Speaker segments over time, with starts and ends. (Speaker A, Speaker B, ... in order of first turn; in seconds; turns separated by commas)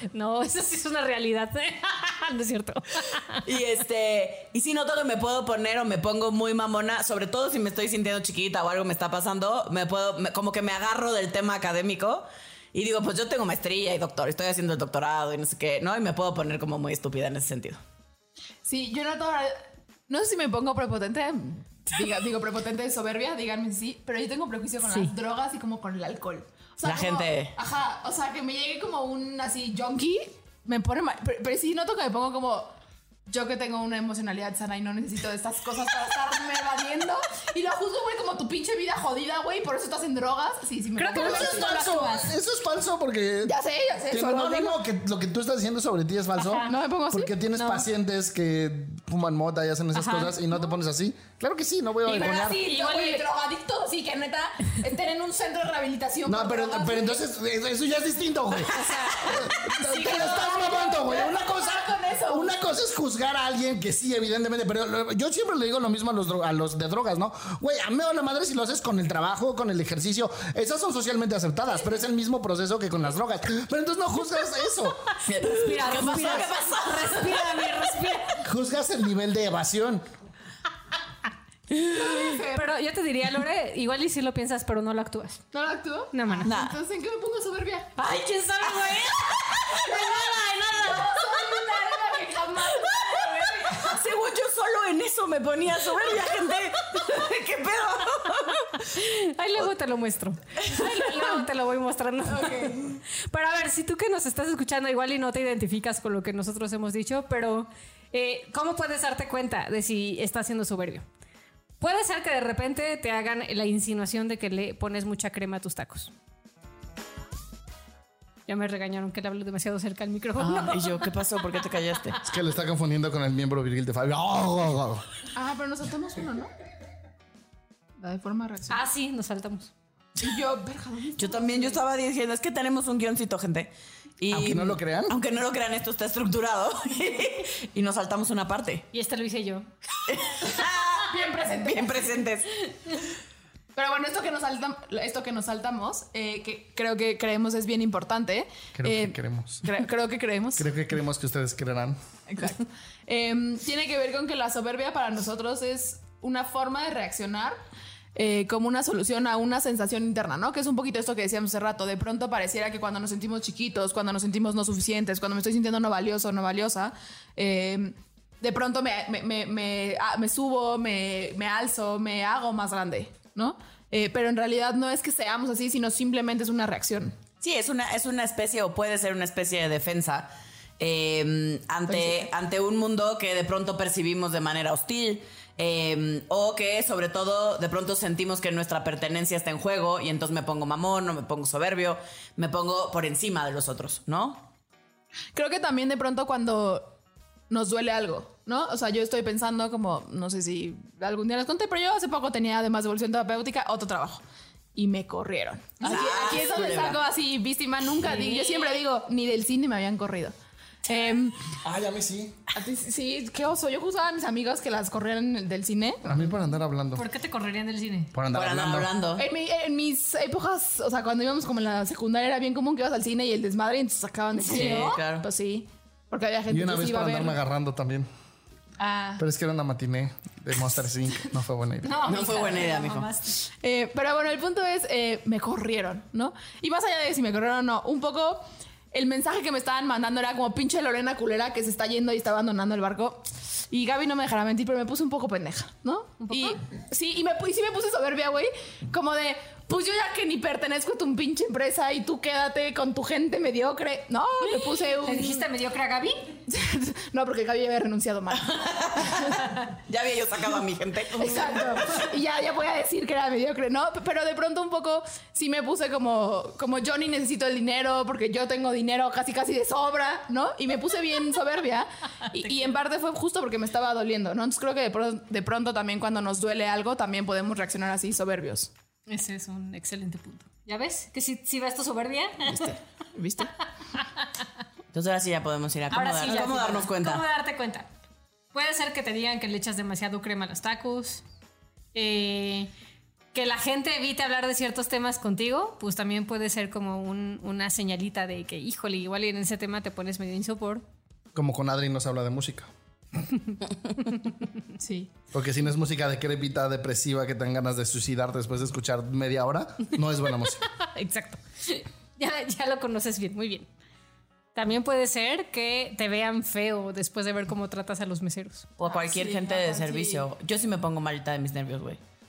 Speaker A: 0.1-3.4, Speaker B: 3.4-17.8, Speaker C: 18.6-19.6, Speaker C: 20.1-32.7, Speaker A: 24.9-25.1, Speaker B: 26.8-27.5, Speaker C: 33.3-42.1, Speaker A: 41.0-42.3, Speaker D: 41.1-43.5, Speaker C: 43.4-44.8, Speaker D: 44.1-52.6, Speaker A: 46.4-46.7, Speaker C: 46.6-47.3, Speaker A: 47.5-47.9, Speaker A: 50.0-50.4, Speaker C: 52.1-57.2, Speaker A: 52.1-53.3, Speaker D: 56.3-75.1, Speaker A: 58.7-60.8, Speaker C: 59.3-62.5, Speaker B: 75.2-77.9, Speaker A: 75.4-78.4, Speaker D: 78.4-80.0, Speaker B: 81.7-82.1, Speaker C: 81.9-82.7, Speaker A: 82.3-85.5, Speaker C: 85.5-87.9, Speaker A: 86.1-86.5, Speaker B: 86.4-86.8, Speaker A: 88.0-91.7, Speaker C: 89.8-94.0, Speaker B: 93.5-98.8, Speaker A: 98.8-111.0, Speaker C: 102.3-103.0, Speaker A: 111.8-116.1, Speaker A: 118.5-121.1, Speaker B: 120.4-122.2, Speaker D: 122.2-125.0, Speaker C: 125.3-126.5, Speaker C: 128.0-128.8, Speaker A: 128.7-129.7, Speaker C: 130.2-131.8, Speaker B: 131.2-138.9, Speaker D: 134.3-135.2, Speaker A: 138.9-139.7, Speaker B: 140.1-141.1, Speaker C: 141.0-142.2, Speaker B: 141.6-142.5, Speaker C: 143.8-150.7, Speaker D: 148.8-149.7, Speaker D: 150.6-152.0, Speaker C: 152.3-157.6, Speaker C: 158.2-177.2, Speaker B: 177.4-194.5, Speaker C: 181.9-182.3, Speaker C: 195.3-197.0, Speaker C: 197.5-204.2, Speaker C: 204.8-210.3, Speaker B: 205.8-207.0, Speaker A: 208.0-208.8, Speaker C: 210.9-211.5, Speaker D: 211.6-212.4, Speaker C: 212.5-216.3, Speaker D: 216.1-217.1, Speaker A: 216.9-218.1, Speaker D: 218.1-218.9, Speaker B: 218.3-219.3, Speaker C: 219.2-227.4, Speaker B: 224.4-225.3, Speaker A: 224.5-224.9, Speaker D: 226.5-228.1, Speaker C: 228.8-229.2, Speaker D: 229.2-232.0, Speaker A: 231.8-233.4, Speaker B: 232.0-233.1, Speaker C: 233.4-255.5, Speaker A: 246.2-246.6, Speaker A: 254.5-256.3, Speaker C: 256.5-259.4, Speaker B: 258.3-261.9, Speaker C: 261.1-278.7, Speaker A: 272.4-272.7, Speaker A: 279.1-282.7, Speaker C: 282.4-283.5, Speaker B: 284.9-287.2, Speaker A: 285.9-287.9, Speaker A: 288.5-291.2, Speaker A: 291.9-292.7, Speaker A: 293.3-300.8, Speaker D: 301.4-302.7, Speaker C: 304.8-305.1, Speaker D: 305.3-310.6, Speaker A: 310.6-313.7, Speaker A: 314.6-318.7, Speaker B: 318.8-322.0, Speaker C: 318.8-320.2